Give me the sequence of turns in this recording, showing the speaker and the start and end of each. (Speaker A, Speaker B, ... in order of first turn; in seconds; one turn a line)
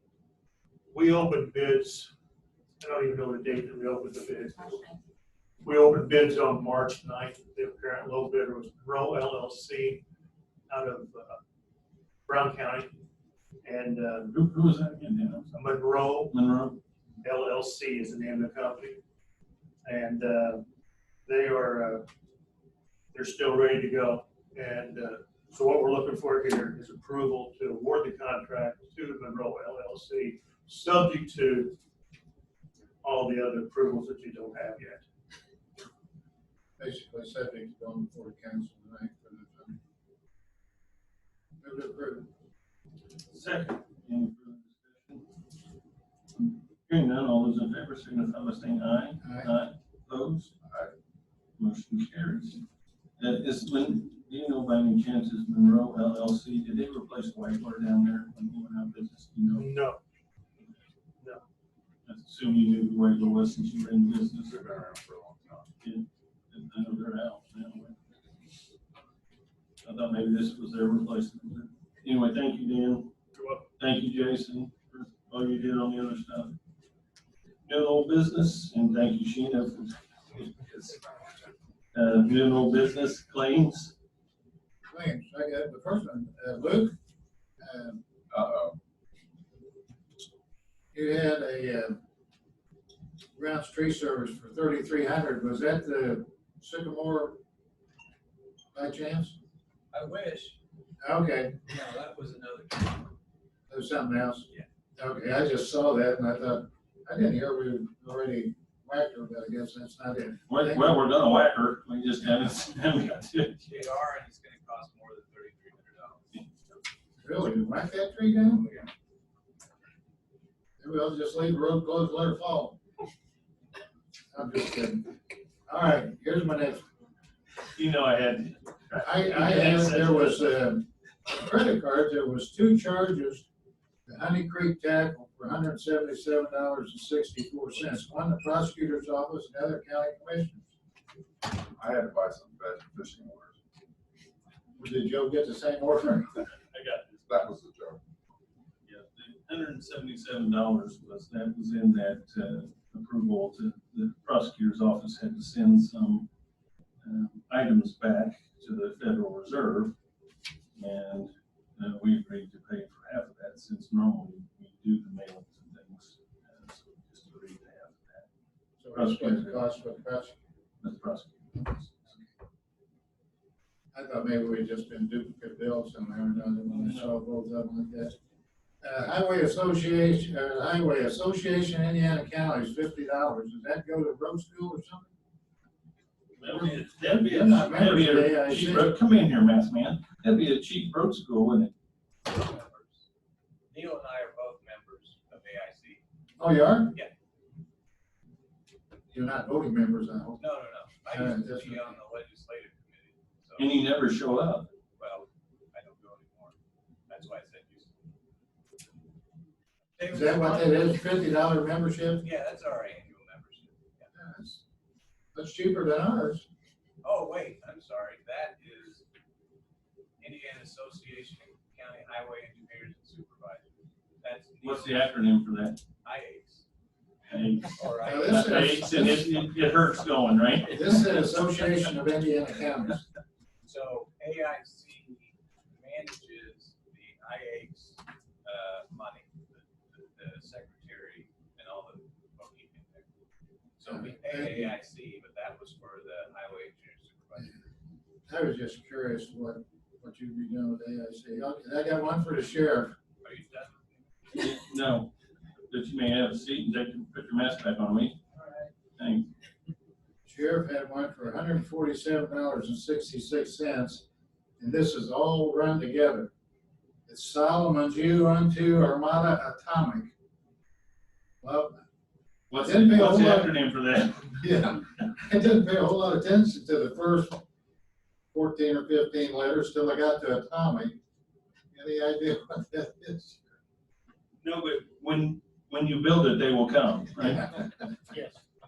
Speaker A: 0.9-2.1
Speaker A: 2.8-4.8
Speaker A: 5.6-10.0
Speaker A: 10.7-11.4
Speaker A: 12.3-12.9
Speaker A: 13.6-14.3
Speaker B: 14.3-15.6
Speaker A: 15.5-16.3
Speaker B: 16.3-16.8
Speaker A: 17.2-19.0
Speaker A: 19.8-20.6
Speaker A: 21.2-22.1
Speaker A: 23.1-31.7
Speaker A: 33.0-35.0
Speaker C: 36.8-39.8
Speaker C: 41.6-42.3
Speaker B: 43.3-45.2
Speaker B: 46.4-50.5
Speaker C: 49.2-49.5
Speaker D: 50.6-50.9
Speaker B: 51.6-52.6
Speaker B: 53.2-59.7
Speaker A: 59.5-60.0
Speaker B: 62.0-64.5
Speaker D: 64.5-65.7
Speaker B: 65.8-67.9
Speaker B: 69.8-73.1
Speaker B: 73.8-76.5
Speaker B: 77.6-80.5
Speaker B: 81.9-83.9
Speaker C: 84.9-86.9
Speaker C: 87.6-88.0
Speaker D: 88.3-88.8
Speaker C: 90.9-92.0
Speaker C: 93.3-97.4
Speaker C: 98.7-99.3
Speaker E: 99.9-100.6
Speaker C: 101.0-101.6
Speaker E: 101.7-103.1
Speaker C: 103.7-110.9
Speaker B: 110.5-113.6
Speaker E: 113.6-116.4
Speaker C: 117.2-118.7
Speaker E: 118.4-118.9
Speaker C: 120.8-122.8
Speaker C: 124.3-125.1
Speaker C: 125.7-126.8
Speaker B: 127.8-130.5
Speaker C: 128.9-133.4
Speaker C: 134.1-140.6
Speaker D: 141.7-143.6
Speaker C: 144.8-146.5
Speaker B: 146.7-147.1
Speaker D: 147.2-148.0
Speaker B: 148.8-156.3
Speaker B: 157.0-159.9
Speaker B: 160.8-168.3
Speaker C: 168.8-170.3
Speaker B: 168.9-169.6
Speaker B: 170.8-171.9
Speaker C: 173.9-178.1
Speaker B: 176.7-177.1
Speaker C: 178.8-185.1
Speaker B: 186.4-191.7
Speaker C: 186.4-188.9
Speaker E: 192.2-193.0
Speaker E: 193.7-196.0
Speaker C: 196.4-196.9
Speaker C: 199.1-200.4
Speaker E: 200.4-203.8
Speaker C: 201.1-202.0
Speaker B: 203.6-204.7
Speaker E: 205.0-206.5
Speaker E: 207.1-207.9
Speaker E: 210.0-211.0
Speaker C: 210.1-212.2
Speaker E: 212.2-214.1
Speaker C: 214.1-214.6
Speaker C: 215.3-216.4
Speaker E: 217.0-219.0
Speaker E: 220.2-223.6
Speaker E: 224.2-225.1
Speaker B: 224.6-225.8
Speaker E: 226.0-226.6
Speaker B: 227.3-230.8
Speaker E: 227.7-228.8
Speaker C: 228.0-229.2
Speaker C: 230.7-233.0
Speaker E: 233.6-243.1
Speaker E: 243.8-247.6
Speaker C: 243.8-244.7
Speaker C: 248.3-252.9
Speaker E: 253.2-254.0
Speaker B: 254.3-255.1
Speaker B: 255.7-258.2
Speaker B: 259.0-259.3
Speaker C: 260.2-264.0
Speaker C: 264.6-266.3
Speaker C: 267.1-270.1
Speaker C: 271.4-271.8
Speaker B: 272.5-274.4
Speaker C: 272.6-273.5
Speaker C: 274.4-277.4
Speaker C: 278.3-280.9
Speaker C: 281.7-283.5
Speaker B: 284.4-287.6